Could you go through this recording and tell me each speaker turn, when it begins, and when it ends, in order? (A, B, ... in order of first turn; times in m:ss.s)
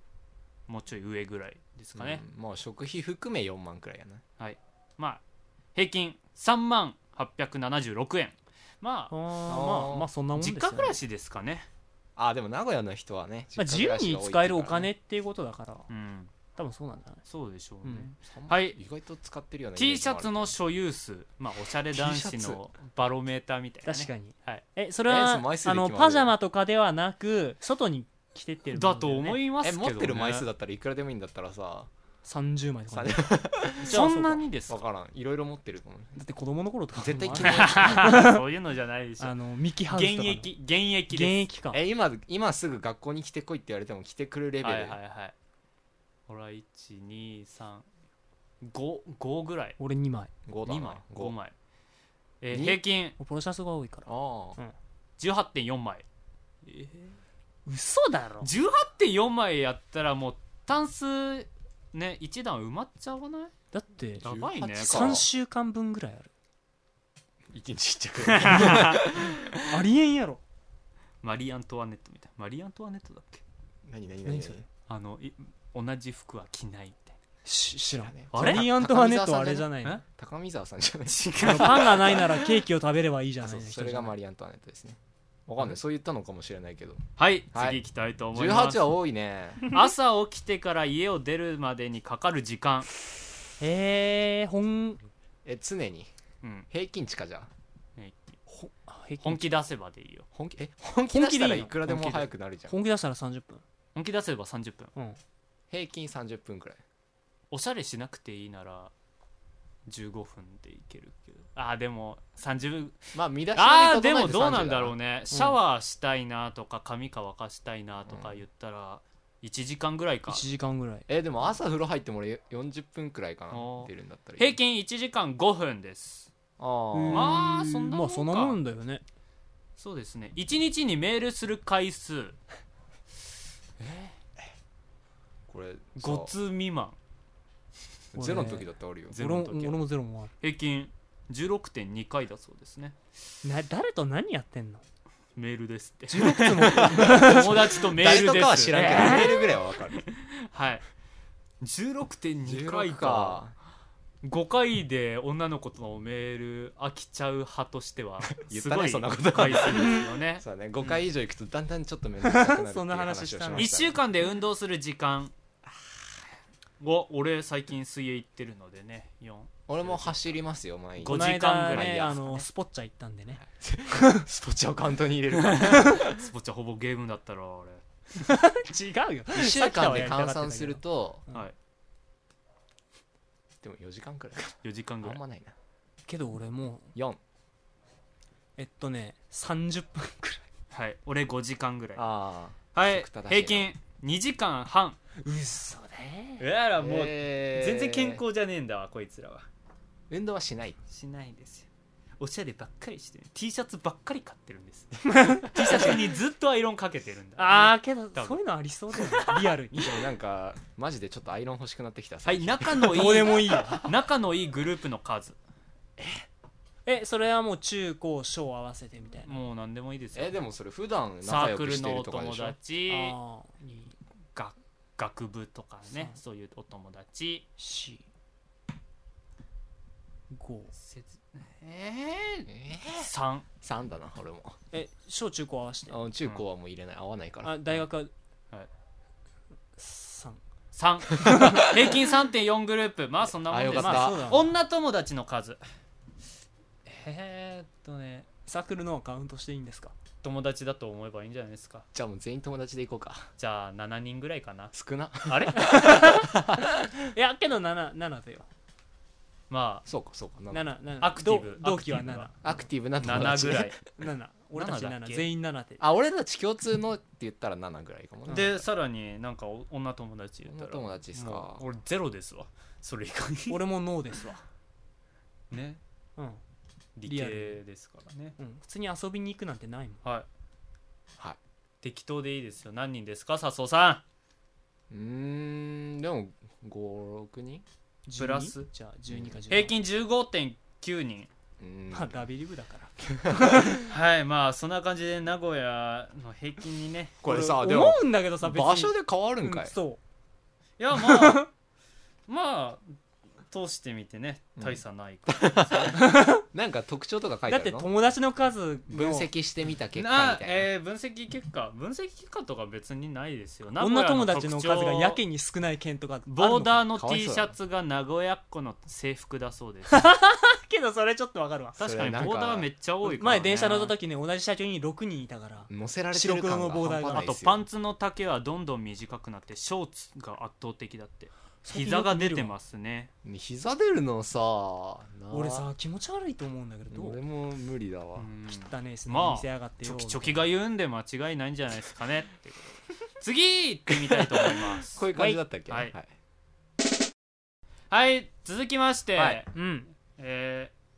0:00.7-0:02.2 A
0:01.9-0:04.2 B
0:04.4-0:05.2 A
0:05.7-0:09.1 A
0:09.1-0:11.0 C
0:09.5-0:10.1 B
0:10.4-0:11.7 A
0:12.2-0:14.9 B
0:13.6-0:15.9 C
0:15.9-0:16.3 A
0:16.6-0:17.2 C
0:17.2-0:18.8 A
0:18.3-0:20.5 B
0:19.8-0:24.6 A
0:21.9-0:22.6 B
0:23.8-0:29.4 C
0:25.1-0:26.3 B
0:28.7-0:30.4 A
0:29.6-0:31.9 B
0:32.2-0:34.4 C
0:32.9-0:34.0 B
0:33.8-0:34.8 A
0:34.7-0:36.2 B
0:36.2-0:38.4 C
0:37.0-0:38.3 B
0:37.4-0:39.3 A
0:39.2-0:40.5 C
0:39.9-0:41.4 A
0:41.1-0:41.8 C
0:41.7-0:45.0 B
0:44.6-0:45.3 A
0:46.3-0:47.9 A
0:48.6-0:49.8 A
0:49.8-0:50.3 C
0:50.5-0:51.3 B
0:50.6-0:51.5 A
0:52.4-0:53.2 A
0:52.5-0:52.8 B
0:53.2-0:54.7 C
0:54.0-0:54.6 B
0:55.2-0:56.0 A
0:56.6-0:57.1 A
0:57.6-0:58.5 C
0:58.4-1:03.5 A
1:03.7-1:06.3 C
1:04.2-1:05.2 A
1:04.2-1:05.3 B
1:07.5-1:09.5 B
1:08.2-1:09.0 A
1:08.5-1:08.9 C
1:09.5-1:10.4 C
1:11.2-1:13.4 A
1:13.8-1:14.6 B
1:14.2-1:14.6 C
1:14.9-1:17.2 A
1:17.4-1:20.0 C
1:18.0-1:22.6 B
1:18.3-1:18.7 A
1:21.1-1:22.2 A
1:21.4-1:24.1 C
1:23.4-1:27.0 B
1:27.2-1:28.9 A
1:27.5-1:27.8 B
1:28.3-1:29.7 B
1:29.6-1:32.9 A
1:33.6-1:35.0 C
1:35.4-1:36.1 B
1:36.4-1:36.7 A
1:36.7-1:37.5 B
1:38.0-1:38.4 A
1:38.5-1:39.6 C
1:39.2-1:40.2 A
1:40.3-1:42.7 B
1:41.1-1:43.6 C
1:43.9-1:44.9 A
1:45.7-1:46.8 B
1:47.5-1:48.9 A
1:49.8-2:00.4 A
1:53.1-1:54.9 B
1:55.3-1:55.6 C
1:58.1-1:58.4 B
2:00.3-2:01.1 C
2:01.1-2:04.6 B
2:03.5-2:06.3 A
2:06.6-2:07.5 B
2:06.9-2:09.0 C
2:07.1-2:08.6 A
2:09.8-2:12.4 A
2:13.8-2:14.1 B
2:15.5-2:16.3 B
2:16.0-2:17.0 A
2:18.1-2:19.7 B
2:18.1-2:20.3 C
2:20.4-2:23.0 A
2:23.4-2:24.8 C
2:25.4-2:29.4 A
2:26.1-2:27.6 C
2:26.7-2:30.0 B
2:28.7-2:29.4 C
2:30.0-2:30.8 A
2:31.6-2:33.4 A
2:32.4-2:33.5 B
2:34.2-2:41.0 A
2:38.3-2:44.0 B
2:39.7-2:40.0 C
2:42.2-2:43.8 C
2:43.6-2:45.3 A
2:46.8-2:50.4 A
2:49.7-2:52.2 B
2:51.0-2:52.4 A
2:51.0-2:54.2 C
2:53.5-2:56.2 B
2:55.3-2:57.8 A
2:58.2-3:01.4 C
2:59.3-3:01.2 B
3:03.6-3:05.5 B
3:04.6-3:05.2 A
3:06.1-3:06.9 C
3:06.9-3:07.2 B
3:08.6-3:10.4 C
3:10.7-3:12.1 A
3:12.0-3:13.7 B
3:12.7-3:15.0 A
3:15.2-3:16.4 C
3:16.4-3:19.5 A
3:16.8-3:18.2 B
3:20.1-3:20.8 B
3:20.9-3:21.7 A
3:22.2-3:28.4 A
3:25.1-3:25.9 C
3:27.4-3:30.0 C
3:29.0-3:29.4 A
3:29.7-3:33.3 B
3:32.2-3:35.4 A
3:32.9-3:33.9 C
3:36.0-3:36.2 B
3:36.8-3:39.4 C
3:39.2-3:40.4 A
3:40.1-3:42.6 B
3:41.2-3:43.2 A
3:42.9-3:43.9 C
3:44.3-3:47.4 A
3:47.6-3:48.0 C
3:50.3-3:50.7 C
3:50.7-3:52.2 A
3:52.2-3:53.1 B
3:53.0-3:53.4 A
3:53.6-3:54.6 B
3:54.7-3:56.0 C
3:55.9-3:57.6 B
3:57.4-3:58.1 C
3:59.8-4:00.4 C
4:00.7-4:05.6 A
4:01.2-4:01.6 C
4:01.2-4:01.7 B
4:03.3-4:04.3 B
4:03.7-4:04.5 C
4:06.8-4:08.3 A
4:08.5-4:09.9 C
4:10.2-4:11.8 A
4:11.9-4:13.3 B
4:13.4-4:14.7 A
4:14.7-4:17.1 B
4:15.2-4:15.9 A
4:15.6-4:16.3 C
4:17.1-4:18.5 C
4:19.5-4:19.8 A
4:19.8-4:20.6 B
4:20.5-4:22.6 C
4:21.0-4:22.3 A
4:22.4-4:23.7 B
4:23.0-4:23.8 A
4:23.2-4:25.8 C
4:24.5-4:25.2 A
4:25.8-4:28.6 B
4:28.3-4:33.6 A
4:30.4-4:31.6 B
4:33.5-4:34.4 C
4:35.5-4:35.8 A
4:37.0-4:38.4 A
4:37.1-4:37.6 C
4:38.4-4:40.0 C
4:41.8-4:44.0 A
4:44.9-4:47.6 B
4:48.1-4:49.7 C
4:48.2-4:48.7 A
4:49.1-4:49.4 B
4:49.5-4:51.3 A
4:51.6-4:52.2 B
4:51.9-4:53.8 C
4:53.0-4:53.8 B
4:53.8-4:57.2 A
4:57.2-4:59.7 B
4:57.2-5:00.0 C
5:00.8-5:01.5 A
5:00.9-5:01.5 C
5:02.3-5:03.0 A
5:03.5-5:06.0 A
5:04.6-5:07.9 B
5:06.0-5:06.4 C
5:07.5-5:09.3 C
5:08.9-5:10.7 B
5:10.0-5:15.2 A
5:13.8-5:16.9 C
5:16.3-5:20.0 A
5:16.9-5:17.5 B
5:19.9-5:21.8 C
5:21.8-5:23.9 A
5:21.8-5:22.7 B
5:23.0-5:27.3 C
5:25.7-5:27.6 B
5:27.1-5:33.1 A
5:31.6-5:32.5 C
5:33.2-5:35.7 B
5:35.3-5:37.2 C
5:36.9-5:38.3 B
5:38.2-5:45.1 A
5:38.5-5:40.4 C
5:43.9-5:46.0 B
5:45.7-5:45.9 A
5:47.9-5:49.5 A
5:49.2-5:49.4 B
5:49.5-5:49.9 C
5:50.1-5:50.7 A